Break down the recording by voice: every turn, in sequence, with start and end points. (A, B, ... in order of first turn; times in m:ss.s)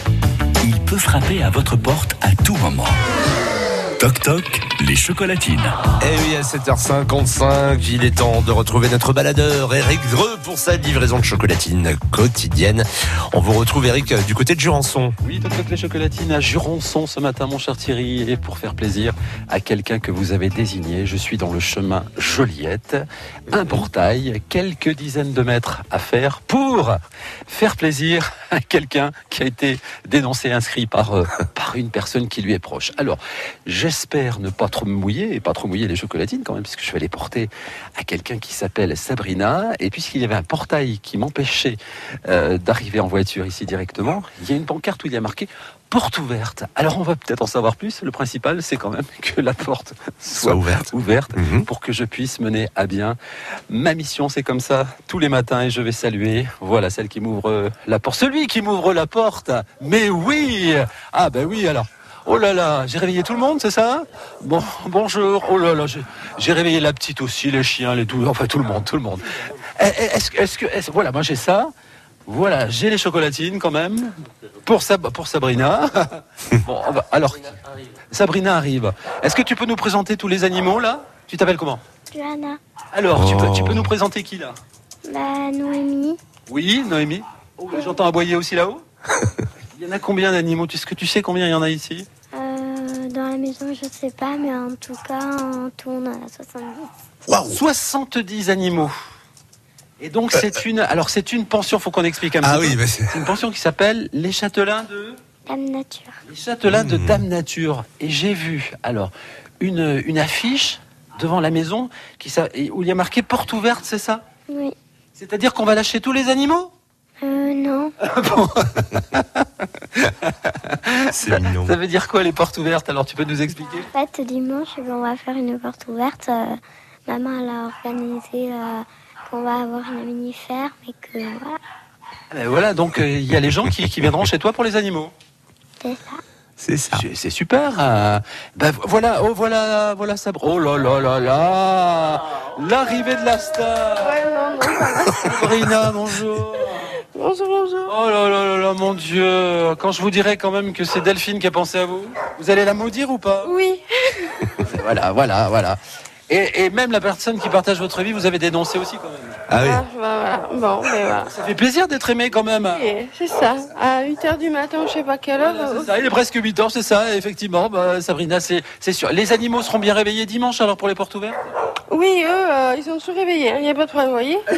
0:00.6-0:03.0 A
0:04.0-0:05.9 A
0:06.0-0:15.1 B
0:15.2-0:53.2 C
0:50.4-0:51.7 B
0:53.7-1:11.7 C
1:12.3-1:14.1 C
1:14.6-1:17.6 C
1:18.1-1:21.8 C
1:22.1-1:22.6 D
1:22.9-1:24.6 C
1:23.2-1:23.9 B
1:25.1-1:26.2 D
1:26.5-1:28.8 C
1:29.7-1:32.1 C
1:32.3-1:36.9 D
1:37.3-1:37.6 B
1:37.5-1:38.9 C
1:40.0-1:45.2 C
1:42.4-1:43.2 B
1:45.5-1:46.2 D
1:46.3-1:54.2 C
1:46.6-1:47.2 B
1:54.5-1:54.8 D
1:55.1-1:56.7 C
1:57.2-1:57.9 D
1:58.0-2:03.9 C
2:01.1-2:01.8 B
2:03.8-2:11.6 D
2:12.3-2:15.1 C
2:15.8-2:16.2 D
2:16.6-2:17.1 B
2:16.9-2:24.2 C
2:24.0-2:25.4 E
2:25.2-2:26.9 C
2:27.1-2:27.9 E
2:27.9-2:33.5 C
2:33.4-2:34.5 E
2:34.6-2:39.4 C
2:39.5-2:39.8 B
2:39.6-2:41.3 E
2:41.3-2:42.8 C
2:42.7-2:46.0 E
2:45.4-2:51.5 C
2:51.9-2:54.5 E